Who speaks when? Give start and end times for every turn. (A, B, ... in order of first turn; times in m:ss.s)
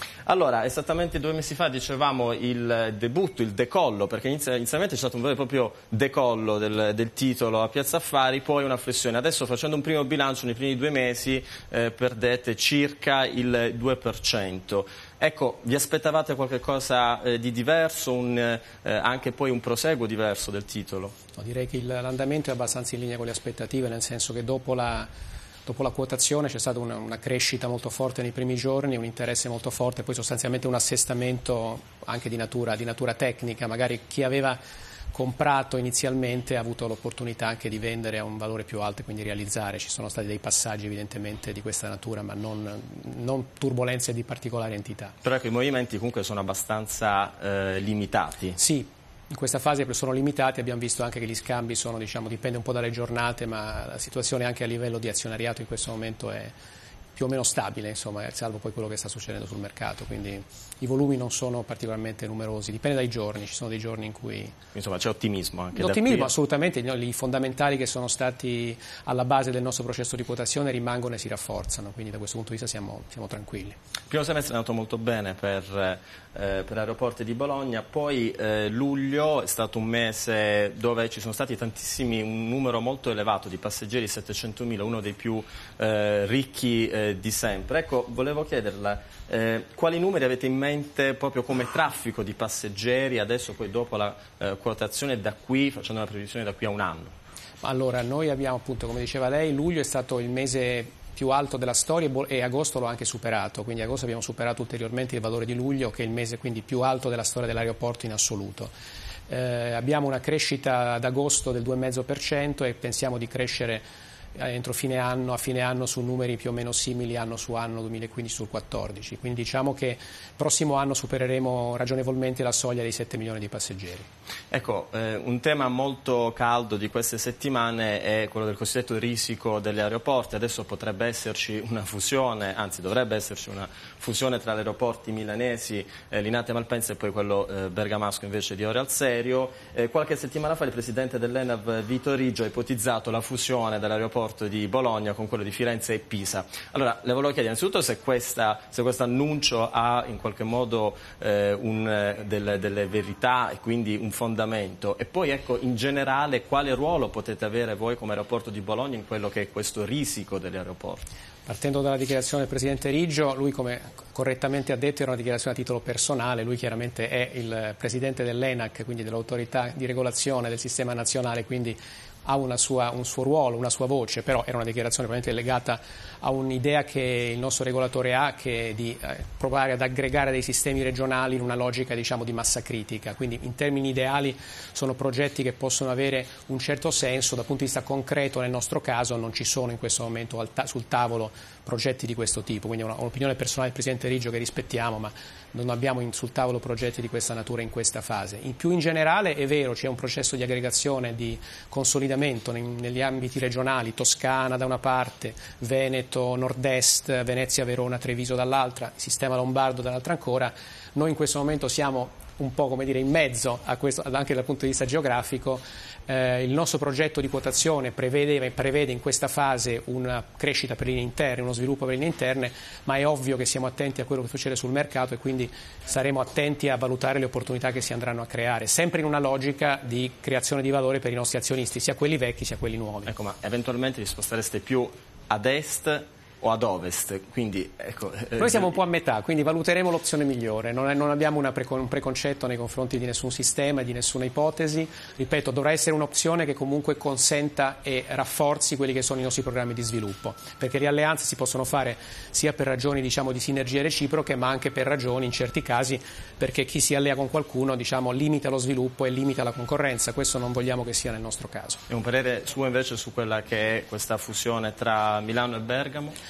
0:00.2-0:21.1 A
0:21.4-0:25.1 B
0:25.6-0:34.6 B
0:35.1-0:45.1 B
0:45.2-0:48.6 A
0:48.6-0:56.5 B
0:57.2-1:04.5 B
1:04.7-1:06.3 A
1:05.7-1:13.8 B
1:14.1-1:37.1 A
1:37.6-1:48.7 B
1:49.3-1:53.8 B
1:54.4-2:04.1 B
2:04.5-2:41.1 A
2:41.4-3:53.1 B
3:53.1-3:58.7 A
3:58.4-4:21.8 B
4:21.9-4:26.1 A